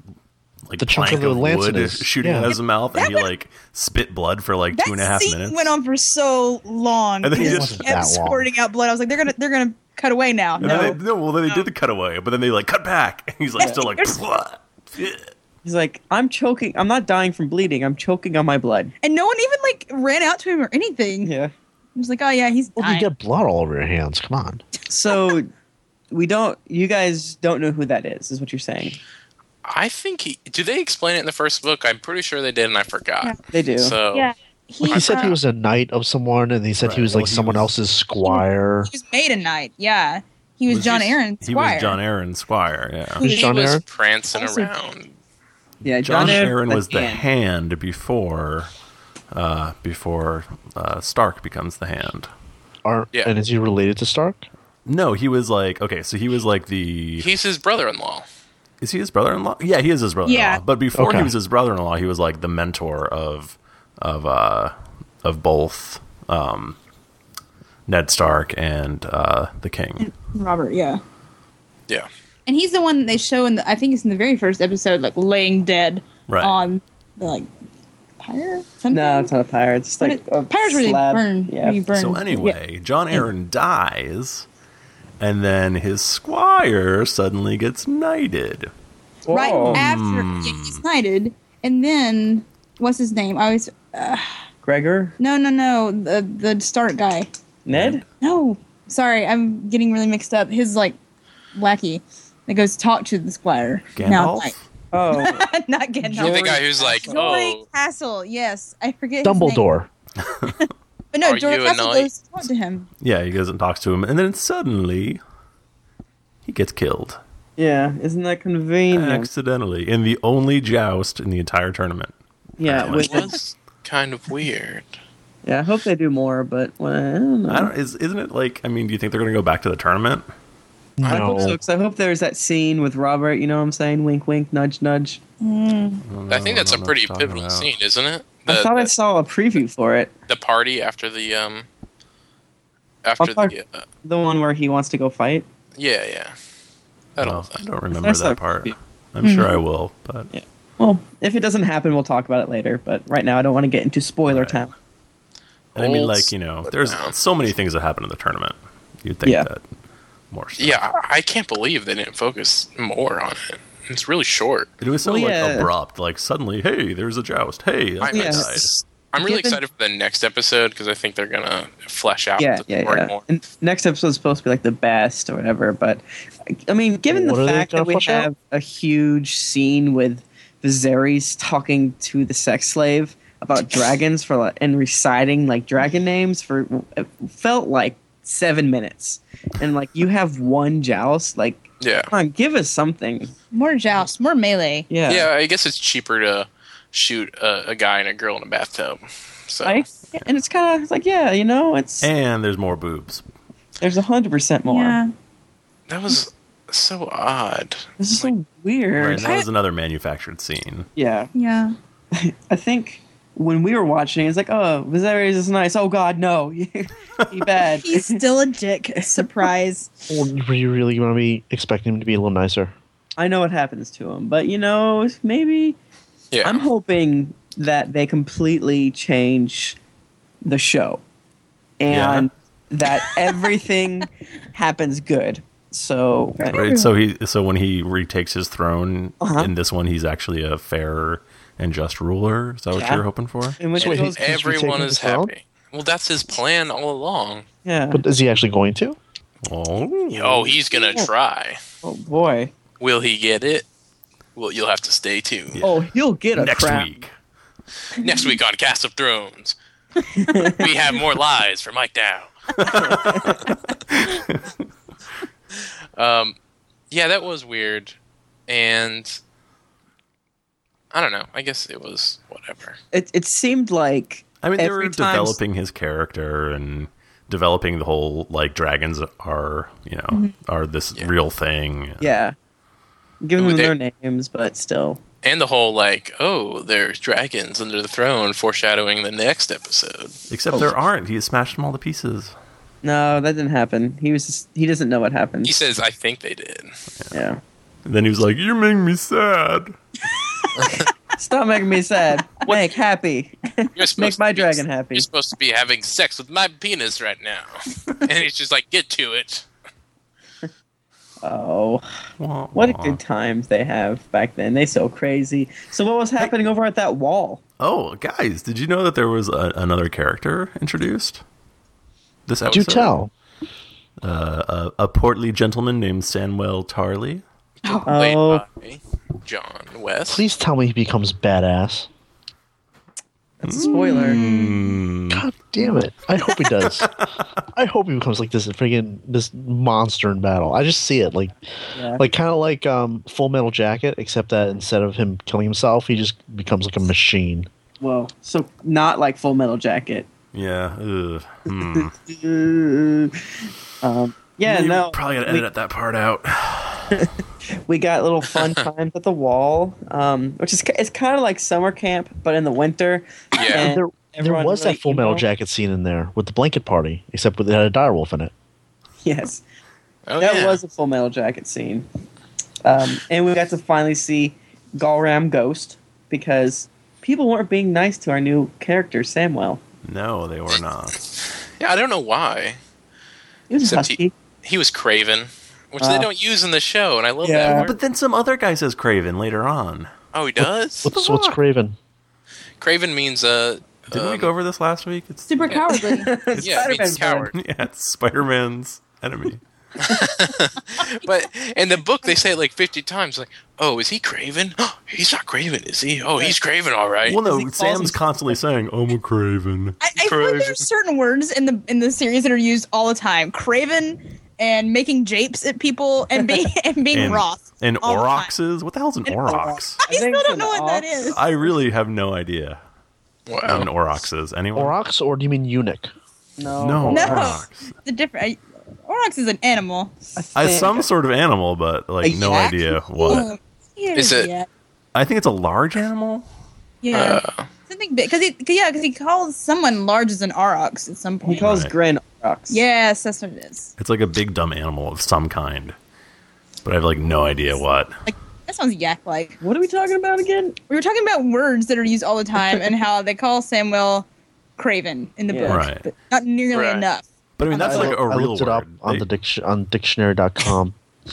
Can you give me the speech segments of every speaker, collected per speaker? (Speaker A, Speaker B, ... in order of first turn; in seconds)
Speaker A: 0.7-5.7, 7.2-7.9, 10.6-15.3, 36.8-37.7, 40.7-43.2, 46.0-48.7, 49.3-52.3, 54.9-57.3, 58.8-66.8, 67.9-70.1, 76.3-76.5, 81.9-84.5, 85.2-88.7, 89.7-90.8, 97.7-98.0, 104.0-104.6, 110.2-110.6, 113.0-115.2, 116.4-117.2, 118.9-123.2, 127.5-130.2, 136.0-137.7, 147.2-150.3, 154.2-154.7, 155.8-159.6, 160.3-160.8, 164.8-168.7, 202.0-203.2, 208.9-210.9, 231.9-232.3, 236.5-243.6, 249.4-250.5, 256.3-257.1, 262.6-264.5, 274.4-282.1, 290.3-292.3, 297.9-299.8, 312.2-313.0, 317.6-321.2, 322.3-322.9, 324.0-327.2, 333.4-335.2, 336.4-337.1, 350.3-351.9, 354.4-357.0, 379.8-381.0, 387.4-389.9, 390.9-391.3, 393.9-395.7, 396.3-399.4, 407.1-409.8, 416.9-419.8, 421.1-422.6, 423.4-424.8, 426.6-427.7, 430.3-433.3, 434.9-436.2, 441.4-441.7, 443.8-445.7, 446.6-448.0, 455.5-455.8, 457.4-459.1
Speaker B: 0.8-2.5, 7.4-8.5, 22.8-24.6, 34.8-38.9, 43.2-43.8, 52.8-54.5, 60.9-61.3, 109.2-109.9, 131.0-131.6, 177.1-178.3, 220.1-222.7, 243.8-245.3, 247.9-249.0, 322.5-323.1, 330.1-331.9, 335.1-336.9, 337.5-347.5, 363.6-368.3, 390.8-391.8, 424.5-425.9, 457.7-460.8
Speaker C: 2.9-3.3, 4.7-11.0, 13.6-14.2, 19.0-21.3, 21.9-23.1, 34.1-35.3, 38.2-42.0, 43.2-43.5, 44.4-44.7, 60.2-60.6, 70.0-71.0, 72.5-77.5, 78.2-79.3, 80.0-82.5, 89.3-94.3, 95.2-97.3, 98.2-101.0, 101.5-104.5, 105.1-109.7, 111.1-112.9, 135.4-136.0, 149.2-149.6, 193.5-194.9, 204.7-205.1, 209.2-209.4, 211.3-211.7, 217.7-219.9, 236.4-236.9, 327.6-327.9, 333.8-334.8, 395.3-396.2, 407.1-408.0, 409.8-418.3, 419.8-421.2, 426.9-429.9, 432.2-434.5, 436.8-441.6, 442.5-443.7, 448.1-449.4, 450.7-454.1, 454.6-457.9
Speaker D: 10.6-11.0, 15.6-18.9, 21.2-21.5, 24.9-25.5, 26.1-29.0, 33.5-34.0, 45.8-47.2, 78.9-81.8, 89.3-89.8, 94.6-95.2, 97.7-98.0, 104.9-105.4, 106.0-107.3, 117.6-119.3, 122.6-123.3, 125.4-127.7, 131.1-135.2, 138.5-140.1, 143.2-145.4, 148.0-148.7, 150.3-154.7, 165.0-165.7, 168.1-168.5, 169.2-169.6, 172.4-193.3, 194.9-195.3, 199.6-202.1, 203.8-205.0, 208.0-209.2, 210.9-211.3, 212.1-218.2, 219.0-219.4, 223.2-225.8, 226.4-229.8, 230.4-231.0, 231.8-236.6, 239.2-239.5, 242.7-243.0, 243.6-244.3, 247.6-248.0, 250.2-251.1, 251.8-252.5, 255.6-256.9, 260.2-260.7, 262.8-263.3, 272.9-275.4, 282.0-282.4, 283.2-285.0, 292.8-295.5, 297.1-297.4, 301.2-305.1, 311.2-311.8, 312.5-317.4, 327.9-328.4, 333.4-334.2, 341.8-342.0, 347.8-350.1, 351.7-355.4, 357.7-365.2, 369.0-369.4, 370.2-371.9, 372.6-379.6, 383.5-384.1, 385.8-386.1, 387.2-387.7, 395.5-397.3, 419.2-421.5, 426.4-427.3, 430.1-430.9, 432.0-432.5, 441.2-442.6, 449.4-450.6, 455.3-455.6
Speaker E: 29.6-34.3, 34.8-35.4, 43.2-45.1, 57.2-58.2, 106.2-107.6, 111.2-112.1, 122.8-125.0, 131.0-131.5, 136.3-138.9, 140.3-141.7, 143.0-143.8, 145.8-146.3, 147.2-147.7, 155.8-157.1, 160.6-164.7, 168.0-173.2, 191.8-192.1, 195.1-199.8, 205.9-208.3, 226.3-226.7, 243.8-247.4, 250.1-251.6, 252.8-253.7, 254.3-255.6, 257.9-259.6, 260.4-262.9, 265.9-266.4, 266.9-267.9, 268.5-269.2, 270.9-272.8, 283.4-283.7, 285.2-290.1, 295.4-296.8, 300.5-300.9, 303.8-309.4, 327.6-330.2, 363.3-363.7, 370.1-370.6, 381.6-382.6, 383.6-387.8, 390.1-390.9, 392.6-394.3, 396.4-397.3, 399.8-407.2, 410.0-410.6, 423.3-423.7, 433.9-434.3, 436.9-437.5, 456.5-456.9